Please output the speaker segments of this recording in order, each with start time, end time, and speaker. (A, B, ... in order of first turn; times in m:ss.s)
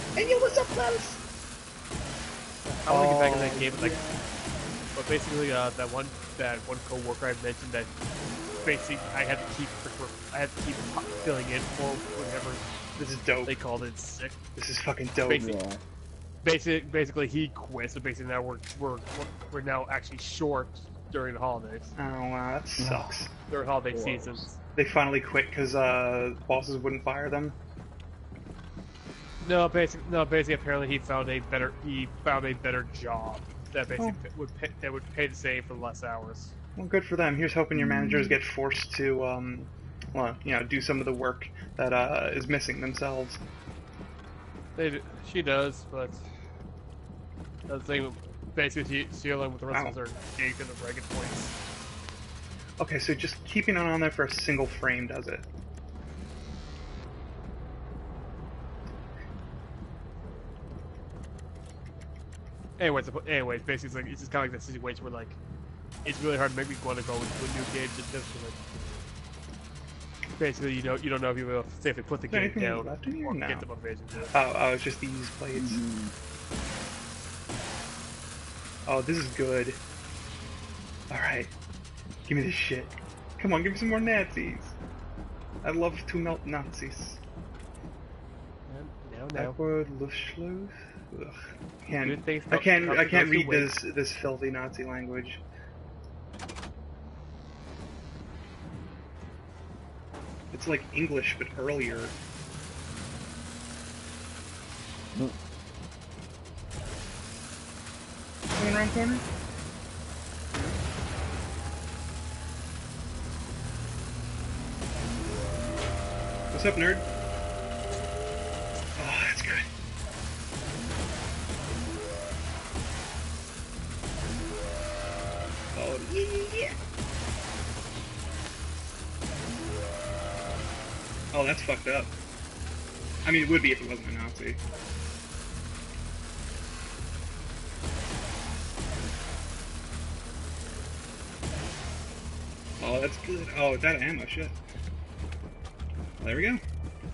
0:00.2-0:01.2 A
0:02.6-0:04.0 B
0:02.9-0:03.8 A
0:03.6-0:04.2 C
0:04.9-0:07.9 B
0:08.6-0:12.6 B
0:13.0-0:13.6 A
0:13.4-0:14.4 B
0:14.6-0:15.5 A
0:15.2-0:15.6 B
0:15.4-0:15.8 C
0:16.4-0:21.9 B
0:22.0-0:23.3 A
0:22.8-0:23.1 C
0:23.5-0:24.6 B
0:23.9-0:24.5 C
0:24.8-0:27.6 A
0:29.4-0:36.5 B
0:36.8-0:43.4 A
0:37.7-0:38.4 C
0:44.8-0:46.2 B
0:47.7-0:51.5 B
0:49.7-0:50.0 A
0:52.8-0:55.4 A
1:02.8-1:05.4 B
1:06.0-1:08.6 B
1:10.4-1:14.4 B
1:12.3-1:13.7 A
1:14.3-1:15.8 A
1:15.5-1:16.1 C
1:18.8-1:19.8 A
1:21.1-1:21.5 A
1:22.3-1:24.8 A
1:25.6-1:27.2 A
1:28.7-1:29.6 B
1:29.4-1:35.4 A
1:32.0-1:33.8 B
1:40.5-1:42.2 A
1:48.5-1:49.2 A
1:56.5-1:57.1 A
1:59.0-1:59.7 A
2:05.7-2:06.8 A
2:11.3-2:12.1 A
2:13.2-2:14.6 A
2:22.8-2:24.6 A
2:26.2-2:26.6 A